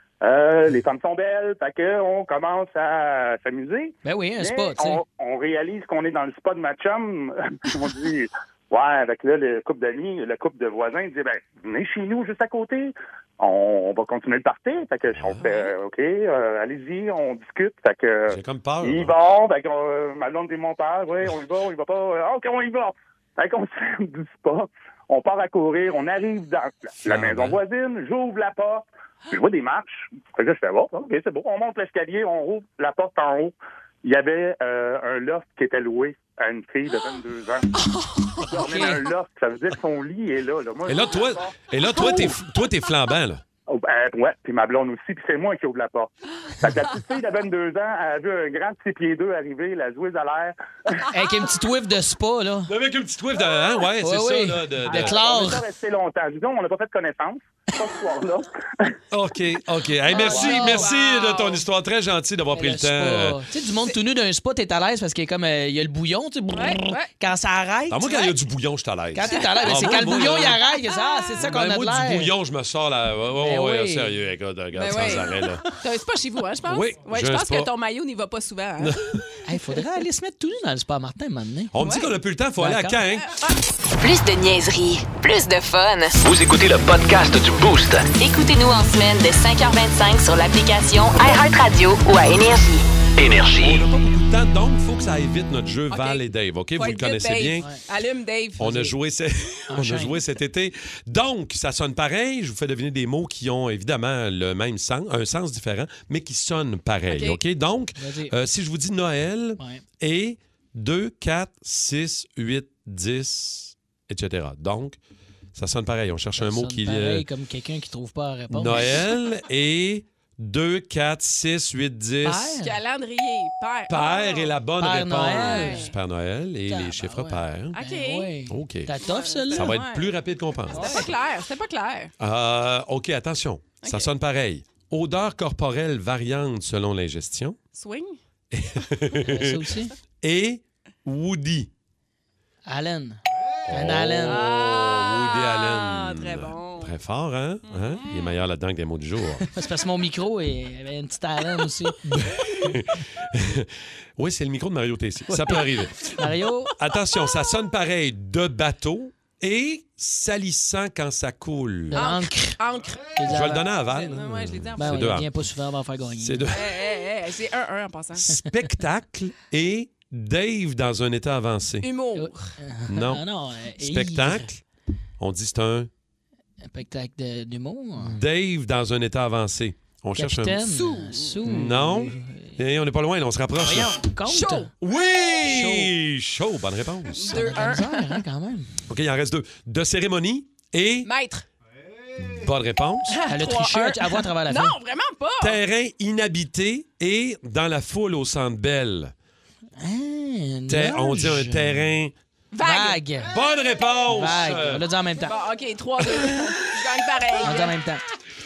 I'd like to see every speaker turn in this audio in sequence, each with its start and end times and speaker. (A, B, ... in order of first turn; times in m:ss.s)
0:00.2-0:37.6 A
0:04.0-0:05.0 B
0:15.1-0:15.7 C
0:18.3-0:19.2 C
0:27.0-0:27.6 C
0:37.7-0:39.0 D
0:38.5-0:41.6 A
0:38.6-0:39.0 B
0:40.8-0:43.4 C
0:43.7-0:51.0 A
0:51.1-0:52.7 B
0:52.7-0:55.2 C
0:54.0-0:55.6 B
0:54.9-0:58.9 A
0:59.1-1:03.4 C
1:00.1-1:01.6 D
1:00.2-1:00.9 B
1:02.5-1:08.3 B
1:06.5-1:07.1 D
1:07.9-1:10.6 C
1:09.1-1:12.3 B
1:09.2-1:09.8 D
1:10.9-1:11.3 D
1:11.4-1:15.6 C
1:13.4-1:14.2 B
1:14.7-1:19.0 D
1:16.6-1:17.7 C
1:18.8-1:19.3 C
1:19.4-1:21.7 B
1:21.7-1:23.3 C
1:21.8-1:22.1 D
1:22.6-1:23.0 B
1:24.0-1:26.2 E
1:26.2-1:28.1 F
1:28.1-1:32.9 E
1:33.2-1:33.8 F
1:33.6-1:37.7 C
1:35.9-1:38.6 D
1:38.6-1:55.0 C
1:38.6-1:38.9 B
1:39.7-1:40.2 B
1:47.1-1:47.4 D
1:48.0-1:48.3 B
1:55.5-1:57.2 C
1:56.4-1:59.0 B
1:58.5-2:02.6 C
2:02.2-2:02.8 B
2:02.6-2:04.5 D
2:03.9-2:07.7 C
2:04.8-2:05.9 B
2:05.3-2:05.9 D
2:06.7-2:09.8 B
2:07.7-2:08.3 D
2:08.5-2:08.9 C
2:09.0-2:12.1 D
2:09.5-2:11.1 C
2:10.7-2:11.1 B
2:12.2-2:17.6 C
2:13.8-2:14.1 D
2:17.7-2:18.2 D
2:18.5-2:19.7 C
2:19.3-2:19.9 B
2:20.2-2:21.7 C
2:22.6-2:24.4 B
2:23.6-2:29.4 C
2:24.2-2:26.9 D
2:27.6-2:28.4 D
2:29.5-2:32.0 B
2:32.0-2:42.0 C
2:35.3-2:36.7 B
2:41.9-2:42.6 B
2:41.9-2:45.2 D
2:43.2-2:43.7 B
2:43.2-2:45.3 C
2:44.8-2:46.5 B
2:46.2-2:46.8 C
2:46.5-2:48.4 D
2:48.3-2:51.9 C
2:51.8-2:52.5 D
2:52.1-2:54.5 B
2:52.9-2:53.2 C
2:53.8-2:54.6 C
2:55.2-2:55.9 C
2:56.6-2:58.2 B
2:58.0-3:00.7 C
3:00.2-3:02.6 B
3:00.9-3:01.4 D
3:01.4-3:03.9 C
3:03.6-3:04.7 B
3:04.3-3:04.7 D
3:04.8-3:07.8 C
3:05.4-3:05.9 B
3:07.2-3:08.2 D
3:07.2-3:08.8 B
3:08.9-3:11.1 C
3:11.0-3:11.4 D
3:12.2-3:13.2 C
3:13.1-3:15.6 D
3:13.2-3:14.8 B
3:15.4-3:19.1 C
3:19.8-3:21.9 B
3:20.7-3:22.1 C
3:22.5-3:23.0 D
3:22.6-3:23.3 B
3:23.3-3:24.8 C
3:24.1-3:25.3 B
3:25.2-3:27.8 D
3:27.4-3:28.0 B